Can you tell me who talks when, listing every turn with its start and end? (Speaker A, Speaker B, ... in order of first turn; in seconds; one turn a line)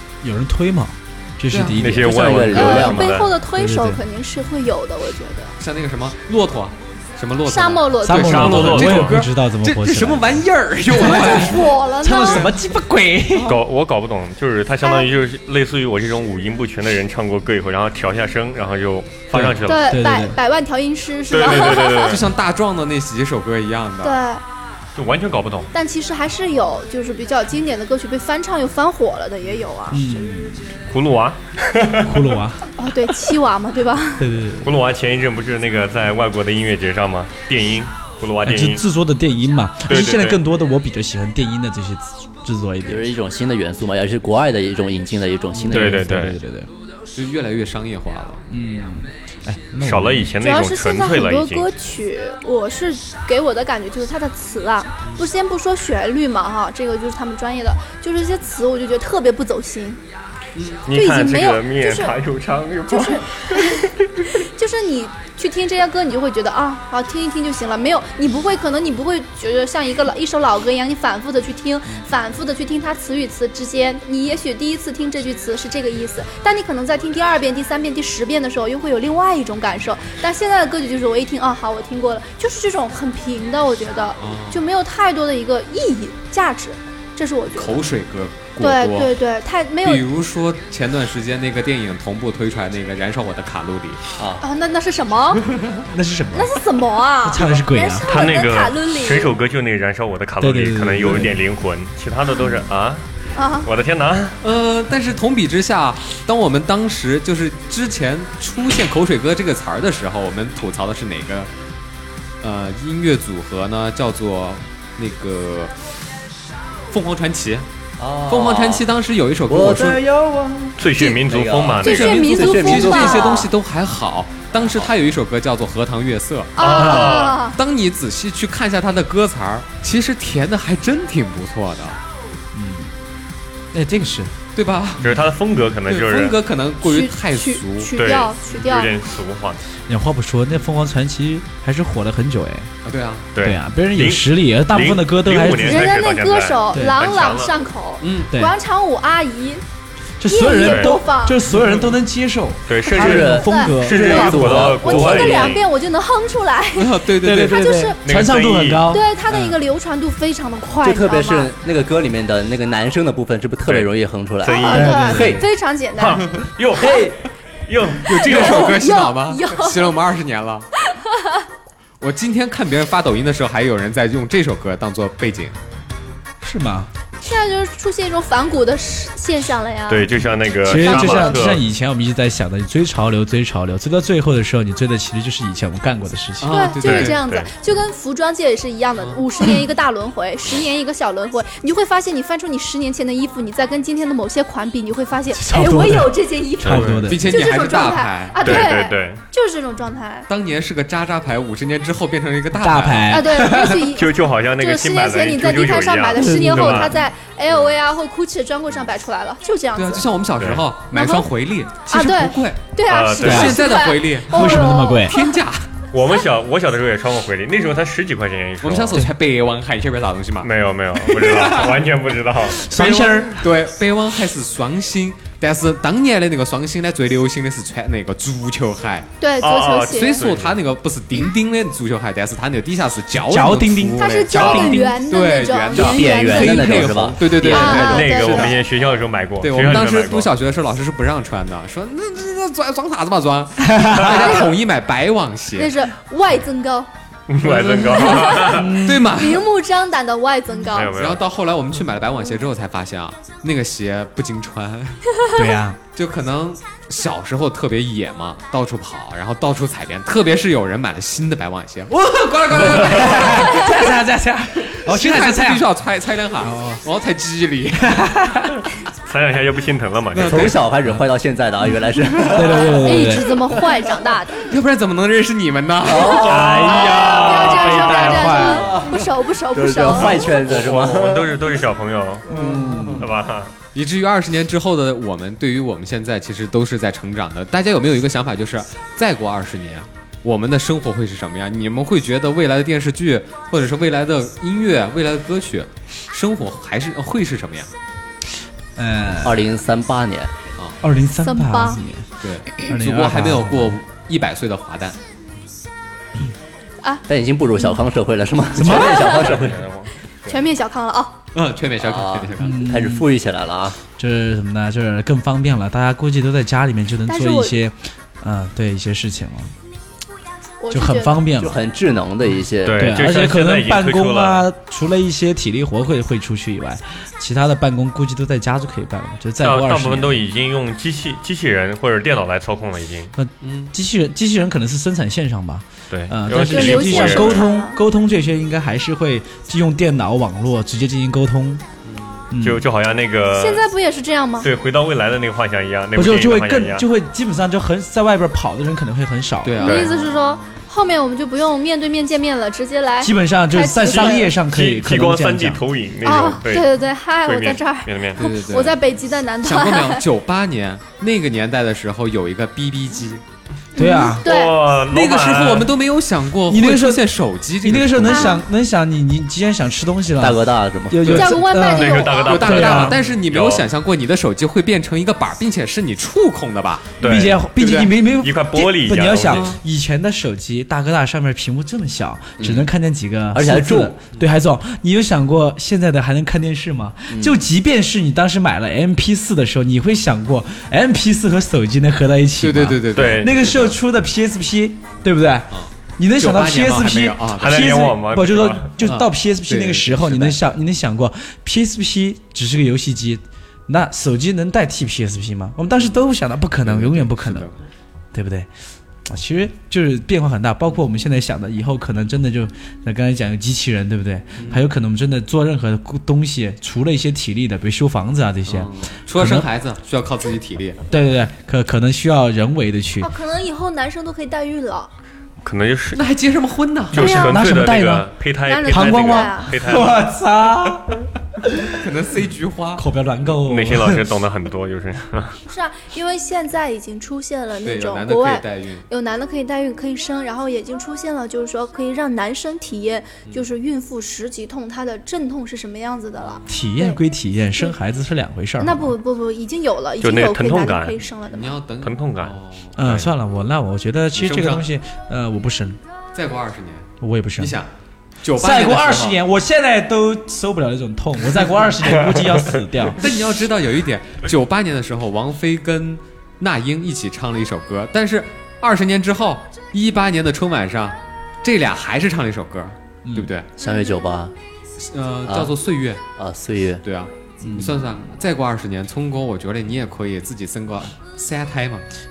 Speaker A: 0.2-2.4
Speaker B: 1.5-1.8
Speaker C: 1.8-3.4
Speaker D: 2.0-3.1
Speaker E: 2.5-5.6
Speaker A: 3.4-4.0
Speaker B: 5.6-12.6
Speaker E: 7.5-8.7
Speaker A: 8.1-13.6
Speaker C: 8.2-9.2
Speaker E: 11.1-12.5
Speaker C: 13.5-20.0
Speaker E: 14.8-15.1
Speaker A: 19.3-20.4
Speaker E: 19.6-22.2
Speaker C: 21.3-22.3
Speaker B: 21.4-24.2
Speaker E: 24.0-24.4
Speaker C: 25.0-25.7
Speaker E: 25.7-30.3
Speaker A: 29.9-30.8
Speaker C: 30.9-32.3
Speaker A: 32.0-32.7
Speaker E: 32.8-34.3
Speaker A: 34.2-34.8
Speaker C: 34.6-38.9
Speaker A: 38.5-43.1
Speaker C: 39.9-40.4
Speaker D: 42.8-46.1
Speaker A: 45.7-46.7
Speaker C: 45.7-46.4
Speaker B: 47.1-48.4
Speaker A: 48.5-50.3
Speaker C: 49.8-51.7
Speaker E: 50.4-60.0
Speaker B: 60.5-60.8
Speaker C: 60.9-64.3
Speaker E: 60.9-62.2
Speaker E: 62.9-87.9
Speaker B: 84.2-84.7
Speaker B: 87.6-89.1
Speaker E: 88.6-90.1
Speaker B: 89.8-94.0
Speaker D: 94.2-94.4
Speaker E: 94.4-95.4
Speaker A: 95.8-96.7
Speaker E: 96.3-99.3
Speaker A: 97.2-98.1
Speaker C: 98.1-103.0
Speaker A: 100.4-101.4
Speaker E: 103.3-103.7
Speaker C: 103.6-104.4
Speaker B: 104.4-111.5
Speaker B: 112.4-115.7
Speaker B: 116.9-117.7
Speaker D: 118.0-118.9
Speaker B: 118.3-120.0
Speaker D: 119.5-123.5
Speaker C: 120.8-122.4
Speaker E: 121.8-123.5
Speaker B: 121.8-132.0
Speaker C: 126.6-127.5
Speaker E: 126.6-127.6
Speaker A: 132.5-132.9
Speaker A: 133.7-134.3
Speaker B: 134.6-135.2
Speaker C: 135.0-136.4
Speaker B: 135.8-137.9
Speaker E: 136.8-138.9
Speaker C: 137.9-139.6
Speaker A: 139.9-142.7
Speaker B: 142.8-143.3
Speaker C: 143.3-147.6
Speaker A: 143.4-145.9
Speaker E: 145.6-149.6
Speaker B: 148.0-148.3
Speaker A: 150.2-154.7
Speaker E: 150.3-151.4
Speaker C: 150.6-151.0
Speaker B: 151.5-151.9
Speaker C: 152.7-155.7
Speaker D: 152.9-155.4
Speaker E: 153.0-158.0
Speaker B: 156.8-157.8
Speaker A: 157.2-159.4
Speaker C: 158.0-159.0
Speaker E: 158.9-161.5
Speaker D: 160.8-165.4
Speaker C: 164.4-165.3
Speaker E: 164.4-166.3
Speaker A: 164.7-165.5
Speaker C: 166.0-168.7
Speaker A: 166.8-167.1
Speaker B: 168.0-170.7
Speaker E: 168.2-169.9
Speaker E: 170.9-171.4
Speaker B: 172.0-175.6
Speaker A: 176.4-176.9
Speaker E: 177.2-181.4
Speaker C: 179.9-181.6
Speaker A: 180.6-186.7
Speaker B: 186.4-187.2
Speaker E: 186.5-200.3
Speaker C: 186.8-187.5
Speaker A: 195.3-197.3
Speaker C: 196.6-197.1
Speaker B: 196.8-198.7
Speaker C: 198.4-199.2
Speaker B: 200.3-203.3
Speaker A: 202.6-203.9
Speaker E: 203.1-210.1
Speaker C: 203.8-207.0
Speaker A: 206.2-206.9
Speaker B: 209.8-212.6
Speaker C: 210.4-210.7
Speaker E: 210.9-211.3
Speaker E: 211.8-215.4
Speaker C: 212.9-213.8
Speaker B: 213.2-215.7
Speaker A: 213.3-213.6
Speaker A: 214.3-215.2
Speaker C: 215.9-219.1
Speaker B: 218.6-221.8
Speaker C: 220.4-222.8
Speaker A: 222.5-223.5
Speaker B: 222.7-229.1
Speaker E: 229.2-230.3
Speaker C: 229.4-230.6
Speaker B: 229.9-238.7
Speaker A: 233.2-235.0
Speaker E: 234.0-236.9
Speaker A: 235.8-236.9
Speaker D: 235.8-237.5
Speaker E: 237.4-238.6
Speaker C: 237.4-240.3
Speaker B: 239.4-245.8
Speaker A: 243.7-244.4
Speaker E: 244.1-244.5
Speaker E: 245.6-246.9
Speaker C: 247.3-248.9
Speaker B: 247.4-249.5
Speaker E: 247.9-251.0
Speaker A: 248.5-249.1
Speaker C: 250.7-251.2
Speaker B: 250.9-255.2
Speaker A: 255.3-255.8
Speaker B: 255.9-264.0
Speaker A: 261.9-265.7
Speaker B: 264.6-268.1
Speaker A: 266.4-266.8
Speaker A: 267.8-268.6
Speaker C: 269.1-270.6
Speaker B: 270.1-270.6
Speaker D: 270.2-273.1
Speaker A: 272.2-273.6
Speaker E: 272.8-274.5
Speaker B: 274.4-276.6
Speaker D: 275.9-276.5
Speaker A: 275.9-278.9
Speaker C: 276.1-278.7
Speaker E: 276.4-280.4
Speaker D: 278.6-281.4
Speaker C: 280.4-282.3
Speaker D: 282.3-283.1
Speaker A: 282.4-282.9
Speaker C: 283.0-283.5
Speaker B: 283.7-297.7
Speaker A: 298.8-299.4
Speaker D: 299.2-300.3
Speaker A: 300.8-302.1
Speaker E: 301.2-301.8
Speaker B: 302.2-305.0
Speaker A: 302.6-303.8
Speaker D: 307.1-309.6
Speaker A: 308.6-309.1
Speaker E: 308.6-309.3
Speaker C: 308.9-310.4
Speaker E: 310.3-311.2
Speaker B: 311.3-312.6
Speaker D: 311.8-313.8
Speaker A: 312.4-313.1
Speaker A: 314.0-319.5
Speaker E: 317.1-317.6
Speaker E: 320.6-321.2
Speaker A: 320.7-321.6
Speaker D: 321.4-323.0
Speaker C: 322.6-324.5
Speaker A: 322.8-330.2
Speaker C: 329.4-333.1
Speaker A: 333.2-341.6
Speaker B: 333.4-333.7
Speaker C: 335.9-337.5
Speaker E: 336.4-337.8
Speaker B: 341.9-342.2
Speaker A: 342.3-342.7
Speaker C: 342.4-343.6
Speaker E: 343.4-344.5
Speaker C: 344.4-346.9
Speaker A: 346.0-349.8
Speaker B: 349.4-350.4
Speaker E: 349.6-354.4
Speaker C: 349.6-349.9
Speaker A: 353.0-355.6
Speaker C: 354.4-356.7
Speaker E: 356.0-360.0
Speaker C: 357.2-358.3
Speaker B: 358.2-358.8
Speaker B: 359.4-363.2
Speaker A: 363.8-364.3
Speaker E: 363.8-364.6
Speaker C: 364.2-365.7
Speaker B: 364.9-368.4
Speaker A: 366.5-367.1
Speaker A: 367.6-373.0
Speaker E: 368.0-368.4
Speaker D: 370.2-371.1
Speaker B: 371.0-371.4
Speaker E: 371.1-372.6
Speaker C: 371.6-373.7
Speaker B: 372.3-377.0
Speaker C: 377.0-377.5
Speaker A: 377.0-407.5
Speaker B: 377.6-377.9
Speaker C: 378.1-379.5
Speaker B: 379.2-379.6
Speaker B: 382.4-382.7
Speaker D: 383.3-384.0
Speaker D: 387.1-387.4
Speaker B: 392.4-393.8
Speaker C: 393.0-393.4
Speaker B: 395.5-397.8
Speaker C: 397.4-398.7
Speaker B: 398.8-400.4
Speaker B: 406.6-407.5
Speaker A: 408.1-408.5
Speaker A: 409.1-419.5
Speaker B: 414.4-414.7
Speaker B: 418.5-420.8
Speaker A: 420.9-423.1
Speaker E: 423.0-424.9
Speaker C: 425.4-426.0
Speaker B: 425.9-427.0
Speaker C: 426.9-430.0
Speaker E: 426.9-427.4
Speaker A: 427.0-428.1
Speaker E: 428.5-429.6
Speaker A: 428.7-431.7
Speaker B: 431.8-432.9
Speaker A: 432.8-434.1
Speaker C: 433.3-435.4
Speaker E: 435.5-447.0
Speaker B: 437.6-438.9
Speaker A: 446.5-448.9
Speaker E: 448.6-451.6
Speaker C: 450.0-451.0
Speaker B: 451.3-452.8
Speaker C: 451.8-453.1
Speaker A: 452.8-455.8
Speaker B: 454.1-454.7
Speaker B: 456.1-457.7
Speaker A: 457.0-457.6
Speaker B: 458.2-459.2
Speaker A: 458.3-463.1
Speaker C: 462.0-462.6
Speaker B: 463.0-473.5
Speaker A: 473.1-473.3
Speaker D: 473.6-474.4
Speaker B: 474.8-476.0
Speaker D: 475.3-475.5
Speaker D: 476.2-476.8
Speaker B: 476.8-481.9
Speaker A: 477.4-477.9